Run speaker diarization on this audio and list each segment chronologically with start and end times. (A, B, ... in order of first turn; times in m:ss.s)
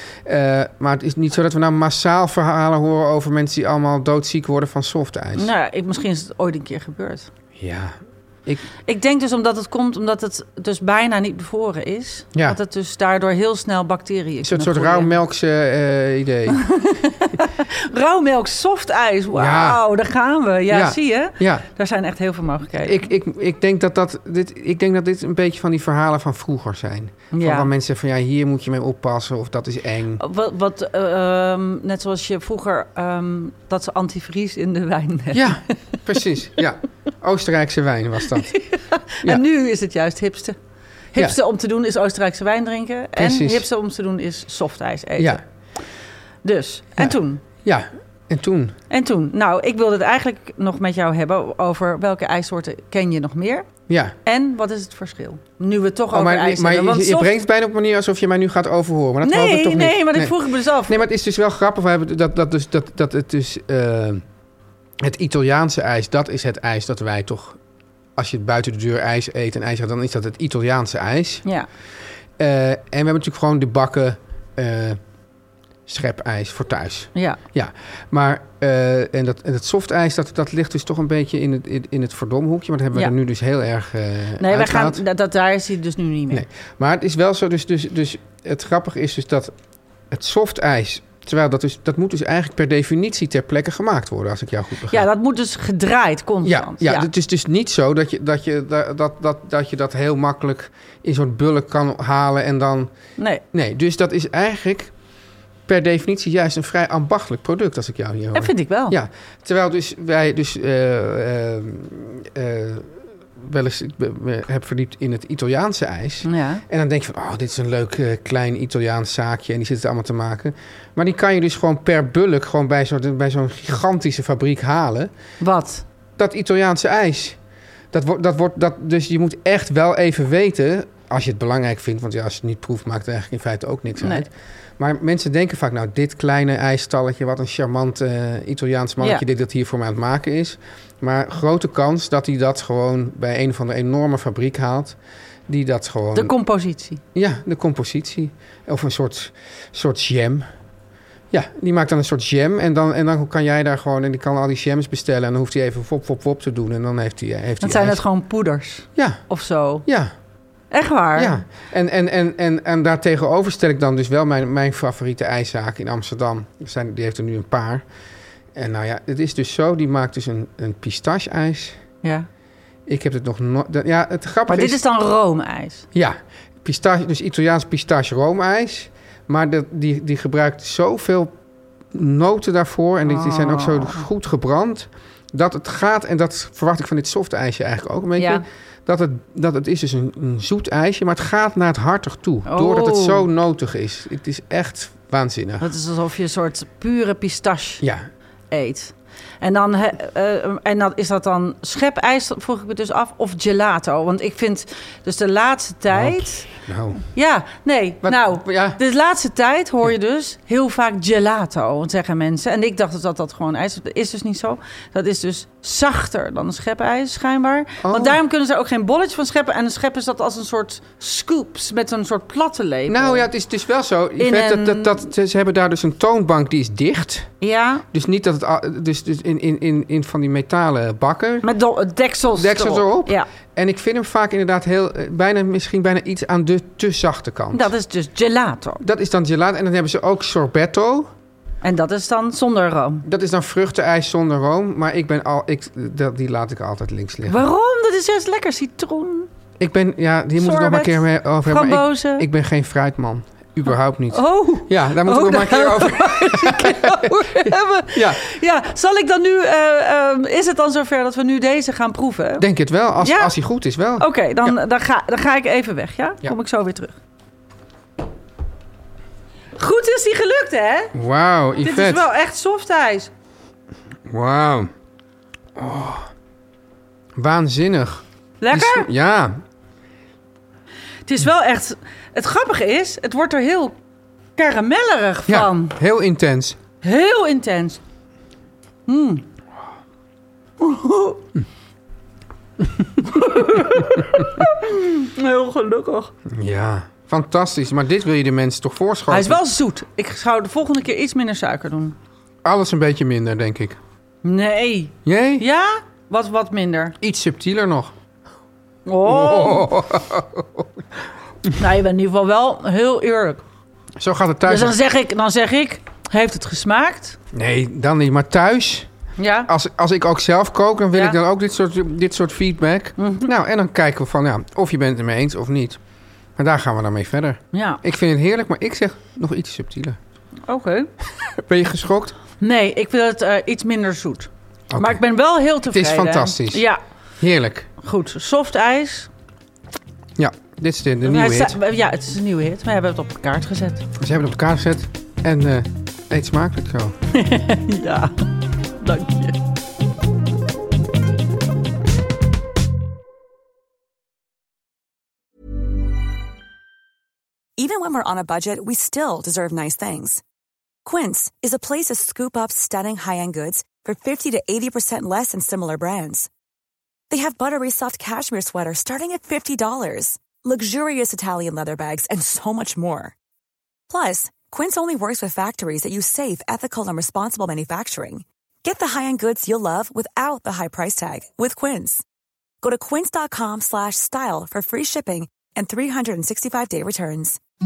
0:00.2-0:05.5 A
0:05.4-0:07.3 B
0:07.6-0:08.6 A
0:08.9-0:15.1 B
0:14.4-0:16.6 A
0:16.5-0:23.0 B
0:19.3-0:19.8 A
0:20.7-0:21.6 A
0:22.8-0:30.2 A
0:27.3-0:27.7 B
0:30.2-0:36.0 B
0:35.3-0:38.5 A
0:38.3-0:40.6 B
0:41.1-0:45.4 B
0:43.2-0:43.7 A
0:46.4-0:47.4 B
0:47.0-0:48.8 A
0:48.9-0:53.7 B
0:53.9-0:54.1 A
0:54.2-0:57.4 B
0:56.1-1:04.2 A
0:59.2-1:01.0 B
1:05.0-1:07.6 A
1:08.2-1:11.4 A
1:12.4-1:15.0 A
1:15.9-1:25.0 A
1:17.2-1:17.4 B
1:24.4-1:26.4 B
1:26.3-1:29.5 A
1:30.1-1:35.1 A
1:34.9-1:37.1 B
1:36.4-1:42.9 A
1:43.2-1:43.4 B
1:43.5-1:44.9 A
1:45.7-2:05.1 A
1:48.3-1:49.0 B
1:56.2-1:56.6 B
2:05.4-2:05.8 B
2:06.2-2:07.4 A
2:07.9-2:26.3 A
2:14.0-2:14.3 B
2:26.2-2:27.0 B
2:27.1-2:30.5 A
2:31.3-2:38.0 A
2:37.6-2:39.8 B
2:39.0-2:39.2 A
2:39.8-2:40.1 A
2:40.7-2:41.4 B
2:41.2-2:47.8 A
2:48.6-2:51.8 A
2:52.9-2:54.8 A
2:54.5-2:55.9 B
2:55.9-3:01.3 A
3:01.9-3:15.7 A
3:03.0-3:04.1 B
3:08.2-3:08.4 B
3:12.5-3:13.3 B
3:15.6-3:17.8 B
3:17.8-3:18.1 A
3:18.5-3:26.5 B
3:25.9-3:27.0 A
3:27.0-3:43.3 B
3:28.0-3:28.8 A
3:37.8-3:38.2 A
3:42.9-3:47.3 A
3:44.2-3:45.1 B
3:47.4-3:47.8 B
3:47.9-3:51.5 A
3:51.4-3:53.3 B
3:52.4-3:57.7 A
3:57.5-3:58.8 B
3:58.8-4:01.1 A
4:01.6-4:03.0 B
4:03.0-4:07.4 A
4:07.3-4:09.3 B
4:09.6-4:18.2 A
4:10.4-4:12.3 B
4:14.1-4:22.4 B
4:22.4-4:24.6 A
4:23.0-4:23.4 B
4:24.0-4:27.0 B
4:29.6-4:31.0 B
4:30.9-4:32.1 A
4:31.6-4:33.1 B
4:34.1-4:34.7 A
4:35.6-4:36.1 A
4:37.2-4:39.4 A
4:38.4-4:38.9 B
4:41.1-4:43.8 B
4:44.4-4:45.8 B
4:45.3-4:46.6 A
4:46.8-4:47.8 B
4:48.9-4:49.2 B
4:50.6-4:51.2 B
4:53.0-4:56.1 B
4:53.4-4:54.4 A
4:56.3-4:59.4 A
4:59.1-5:02.0 B
5:02.4-5:03.8 A
5:04.2-5:07.0 B
5:05.0-5:05.4 A
5:07.0-5:07.9 A
5:08.9-5:09.7 B
5:09.0-5:10.7 A
5:11.6-5:13.4 B
5:14.0-5:14.8 A
5:14.5-5:17.2 B
5:17.3-5:18.9 A
5:19.2-5:19.5 B
5:19.5-5:25.8 A
5:20.9-5:21.2 B
5:23.0-5:23.3 B
5:26.4-5:30.0 A
5:27.5-5:27.8 B
5:30.5-5:30.9 B
5:31.3-5:32.2 A
5:32.4-5:36.8 B
5:34.7-5:35.0 A
5:35.6-5:36.6 A
5:37.2-5:37.7 A
5:37.8-5:39.1 B
5:40.2-5:41.6 A
5:41.0-5:43.8 B
5:44.0-5:46.9 A
5:47.1-5:48.2 B
5:48.8-5:49.4 B
5:57.6-6:00.2 C
6:00.8-6:06.3 C
6:07.1-6:13.2 C
6:13.9-6:22.0 C
6:22.6-6:27.4 C